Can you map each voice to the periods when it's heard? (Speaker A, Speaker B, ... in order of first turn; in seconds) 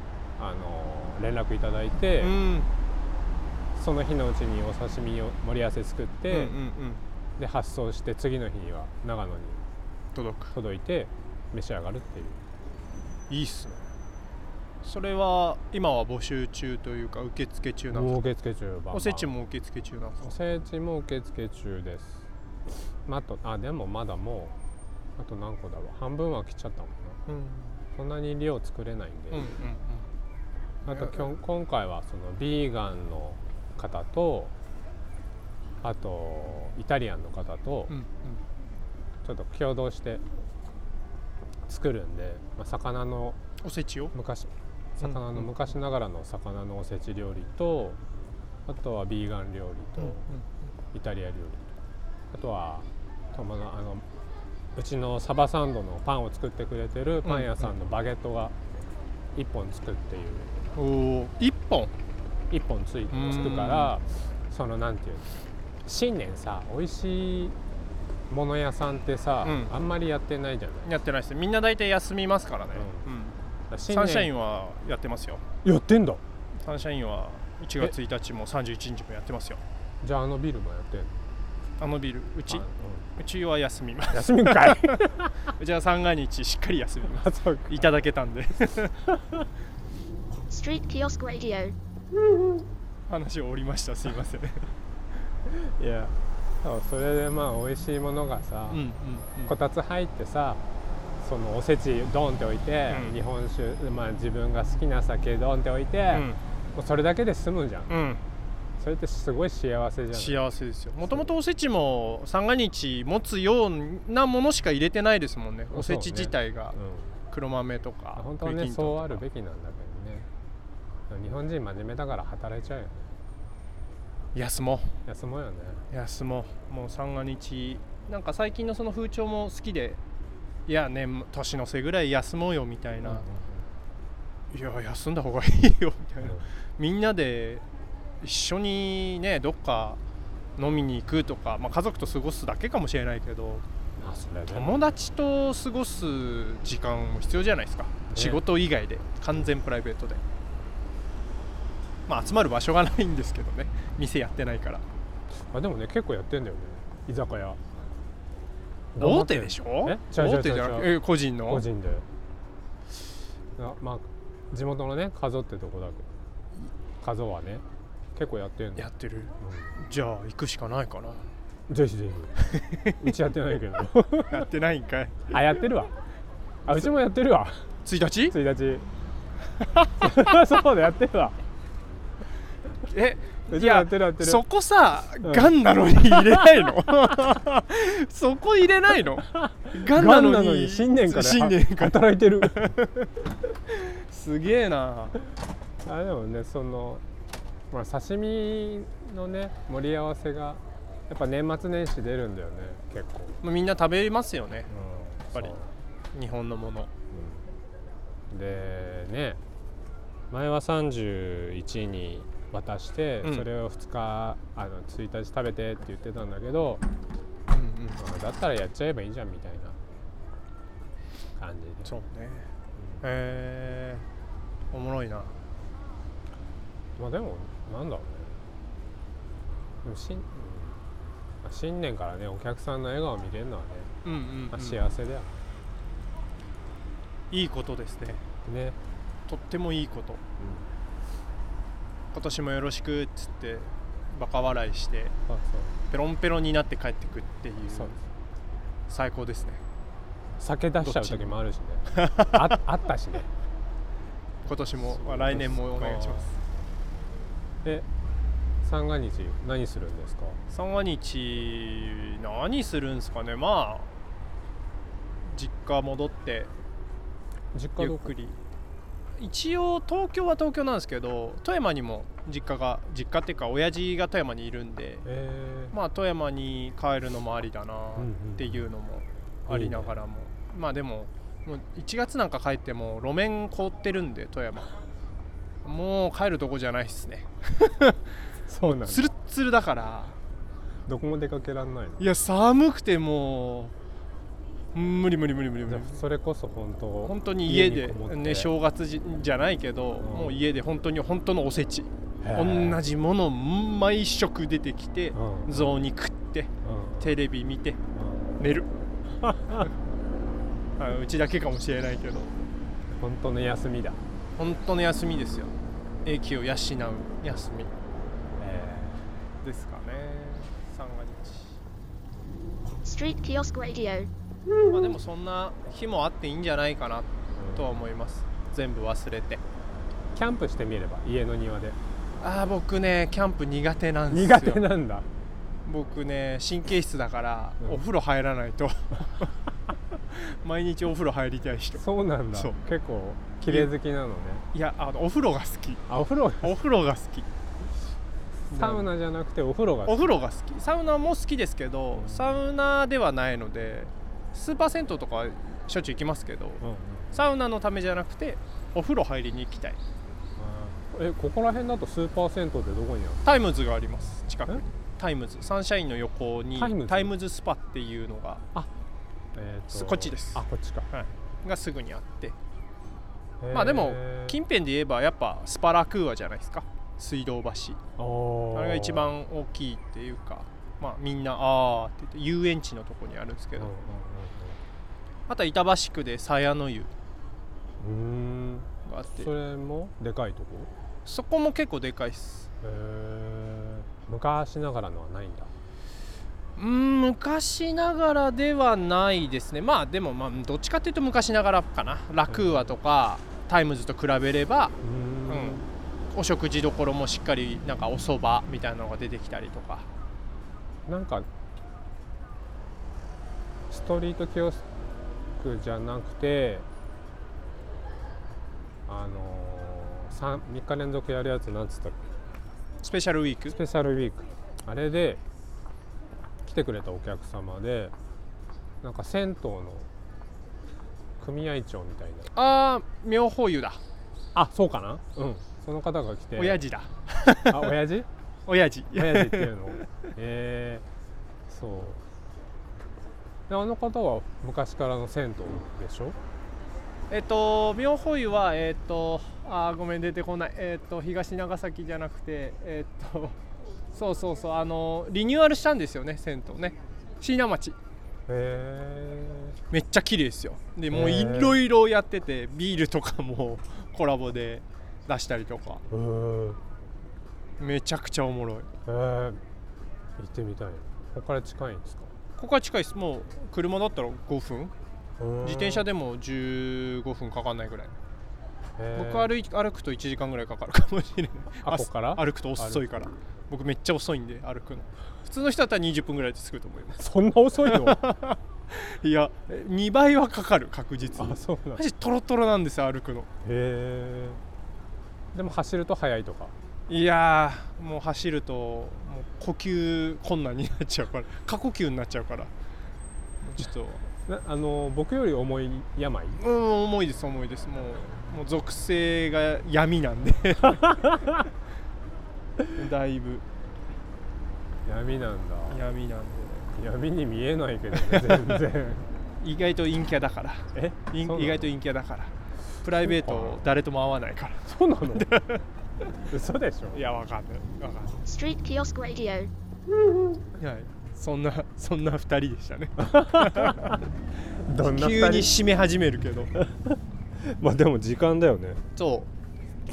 Speaker A: 0.4-2.4, 3.8-6.6, 7.4-9.6, 10.5-12.4, 17.9-19.3, 20.2-22.3, 22.8-24.6, 25.2-27.2, 27.9-29.5, 30.9-34.5, 35.8-38.0, 39.2-40.2, 41.7-43.4, 44.1-48.0, 48.7-50.3, 50.9-51.8, 52.3-54.0, 54.8-58.6, 59.4-60.5, 62.5-67.6, 68.3-70.9, 72.7-73.1, 73.7-74.3, 75.6-76.2, 80.0-81.2, 82.5-83.1, 84.1-85.5, 87.1-87.9, 95.5-98.9, 99.5-100.6, 101.2-107.9, 108.8-110.5, 115.7-117.2, 118.2-120.3, 121.1-123.2, 125.1-125.9, 133.0-133.7, 136.2-136.5, 144.0-144.8, 148.1-148.4, 155.4-157.6, 158.9-162.1, 163.6-166.1, 167.0-168.9, 169.4-169.8, 171.7-172.4, 173.0-174.5, 175.3-175.9, 176.7-178.9, 180.0-181.4, 183.5-184.4, 185.2-186.7, 189.3-192.7, 195.8-197.0, 197.7-203.4, 204.7-205.7, 207.1-207.5, 208.3-209.4, 210.3-216.8, 218.0-219.8, 221.4-221.9, 222.8-223.0, 227.0-228.4, 229.8-230.8, 231.4-233.9, 234.5-235.3, 238.4-238.8, 240.4-240.7, 245.3-245.8, 247.7-248.0, 250.4-253.3, 254.8-256.3, 258.6-260.4, 267.5-268.1, 275.1-275.8, 278.0-278.7, 279.5-280.0, 288.5-289.1, 290.9-292.1, 295.7-298.5, 300.0-300.5, 302.2-302.8, 305.1-305.9, 306.6-307.2, 307.9-308.4, 309.2-309.7, 312.9-314.0, 318.4-319.1, 327.4-327.8, 330.1-331.8, 334.1-335.1, 341.8-344.5, 345.9-346.6, 348.5-350.1, 351.9-352.4, 356.6-357.2, 360.4-363.2, 366.6-367.1, 369.3-370.9, 373.4-374.4, 378.0-379.1, 383.6-384.6, 387.8-390.7, 392.6-395.5, 402.3-402.7, 404.8-405.7, 410.9-411.3, 413.7-414.6, 415.4-416.7, 418.9-422.0, 423.5-425.2, 426.4-427.9, 428.8-429.9, 431.2-432.3, 434.4-436.6, 437.5-438.1, 438.9-440.9, 441.5-442.0, 443.5-446.2, 458.3-459.6, 460.9-461.6, 465.9-466.6, 468.9-469.4, 470.2-472.1, 475.2-475.9, 478.8-479.3, 481.6-482.8, 487.0-488.0, 491.1-491.8, 493.4-494.4, 495.3-496.6, 504.3-506.4, 514.9-515.8, 516.7-519.1, 520.7-521.8, 523.0-523.7, 524.7-525.3, 526.3-527.0, 533.0-534.0, 534.6-535.5, 536.5-538.9
Speaker B: 2.2-2.7, 6.3-7.0, 10.1-10.6, 13.3-13.9, 14.8-18.2, 18.9-20.4, 27.3-27.8, 29.3-30.1, 30.9-31.3, 37.9-38.4, 43.6-44.1, 45.0-45.5, 50.0-50.5, 57.2-57.7, 60.8-61.9, 63.1-64.0, 69.4-69.8, 70.8-75.4, 76.6-79.6, 81.8-82.7, 83.2-89.0, 93.1-94.7, 98.7-99.6, 102.9-103.2, 106.1-106.4, 107.9-108.2, 110.1-116.8, 117.3-119.2, 124.3-125.0, 125.9-130.0, 130.7-133.3, 134.5-137.6, 138.2-140.0, 140.6-143.7, 144.5-150.2, 152.1-154.8, 159.0-161.7, 168.8-171.3, 172.4-173.0, 174.3-175.3, 177.8-178.4, 179.6-179.9, 182.9-193.1, 193.7-195.2, 203.4-204.7, 206.1-206.9, 217.5-218.0, 221.8-224.1, 224.7-225.4, 234.0-234.8, 237.3-238.2, 239.3-240.2, 242.1-245.2, 245.9-247.9, 248.9-249.6, 250.8-251.4, 252.0-252.3, 254.4-256.3, 260.5-263.9, 265.2-266.5, 267.8-268.4, 269.2-275.1, 275.7-284.8, 285.6-288.1, 288.7-290.2, 292.0-293.8, 294.7-296.0, 297.0-307.8, 308.4-308.7, 310.8-312.3, 314.4-317.7, 319.4-321.6, 324.7-329.4, 332.2-334.7, 335.6-339.4, 340.1-342.6, 343.4-343.7, 344.5-345.9, 346.4-347.3, 348.5-348.9, 349.9-359.8, 363.2-368.4, 369.7-372.4, 373.5-377.8, 378.5-383.7, 385.3-386.9, 388.9-389.3, 391.1-392.5, 396.6-404.8, 405.3-409.9, 422.8-423.6, 432.3-433.8, 436.4-437.7, 438.5-439.9, 447.1-453.4, 453.9-457.8, 459.7-465.8, 467.6-468.7, 472.4-474.7, 475.4-477.9, 478.9-487.0, 487.6-493.3, 496.9-502.5, 503.4-504.1, 506.4-511.0, 512.7-513.5, 515.7-516.7, 517.9-518.6, 519.4-525.6, 526.9-528.3, 530.6-534.0, 534.7-536.5, 539.0-539.3
Speaker C: 90.5-91.8, 322.8-324.1, 528.2-529.5